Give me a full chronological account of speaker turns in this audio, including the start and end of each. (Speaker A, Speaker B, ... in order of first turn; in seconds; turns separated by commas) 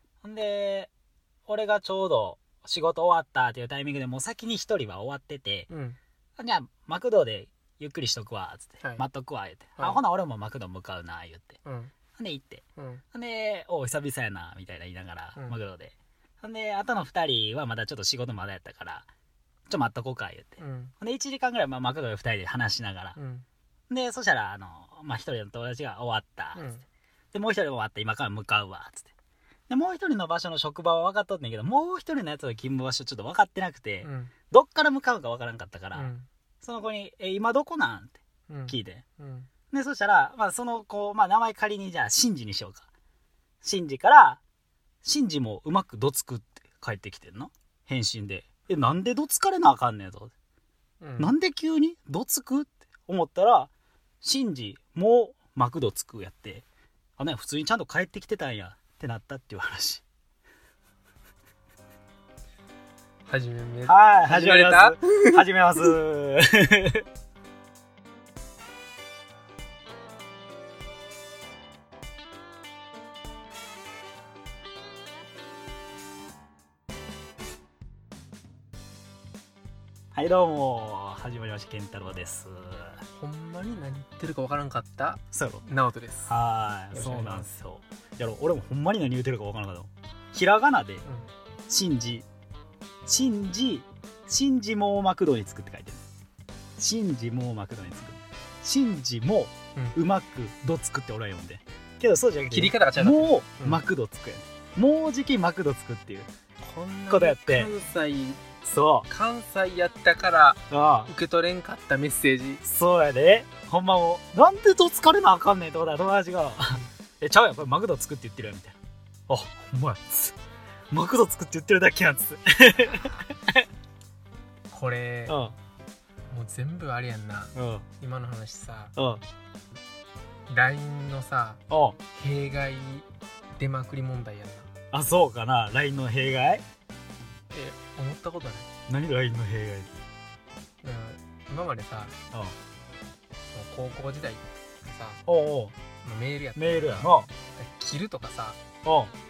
Speaker A: 0.2-0.9, Speaker A: 1.5-5.7, Speaker B: 5.7-6.0, Speaker A: 6.4-11.6, Speaker B: 11.7-11.9, Speaker A: 12.1-19.1, Speaker B: 12.8-13.0, Speaker A: 19.7-23.2, Speaker B: 20.6-20.9, Speaker B: 23.2-23.4, Speaker A: 23.9-26.6, Speaker B: 26.6-26.8, Speaker A: 27.3-29.1, Speaker A: 29.7-39.0, Speaker B: 34.0-34.3, Speaker B: 35.9-36.3, Speaker B: 38.5-39.5, Speaker A: 39.7-42.8, Speaker A: 43.6-44.4, Speaker A: 45.0-50.3, Speaker B: 51.0-51.3, Speaker A: 51.2-53.7, Speaker A: 54.2-56.6, Speaker A: 57.2-60.0, Speaker B: 63.3-65.5, Speaker A: 63.9-67.0, Speaker A: 80.1-83.0, Speaker B: 83.2-86.3, Speaker A: 85.3-85.6, Speaker A: 86.3-91.0, Speaker B: 86.9-87.5, Speaker A: 91.7-92.2, Speaker A: 93.1-96.0, Speaker A: 96.8-106.3, Speaker B: 102.5-103.8, Speaker B: 106.6-108.5, Speaker A: 107.1-107.7, Speaker A: 108.6-109.1, Speaker B: 109.1-112.6, Speaker A: 110.7-111.1, Speaker A: 112.6-118.8, Speaker A: 119.3-120.4, Speaker A: 120.9-123.6, Speaker B: 124.7-125.3, Speaker A: 125.3-125.5, Speaker B: 126.3-128.9, Speaker A: 127.5-127.9, Speaker A: 129.0-129.2, Speaker B: 130.5-133.1, Speaker A: 131.7-132.0, Speaker B: 133.6-134.7, Speaker A: 134.9-136.6, Speaker B: 137.5-138.7, Speaker A: 138.9-139.9, Speaker B: 140.8-142.1, Speaker B: 143.5-145.2, Speaker A: 145.3-145.8, Speaker B: 146.0-148.6, Speaker A: 146.6-147.3, Speaker A: 148.8-149.1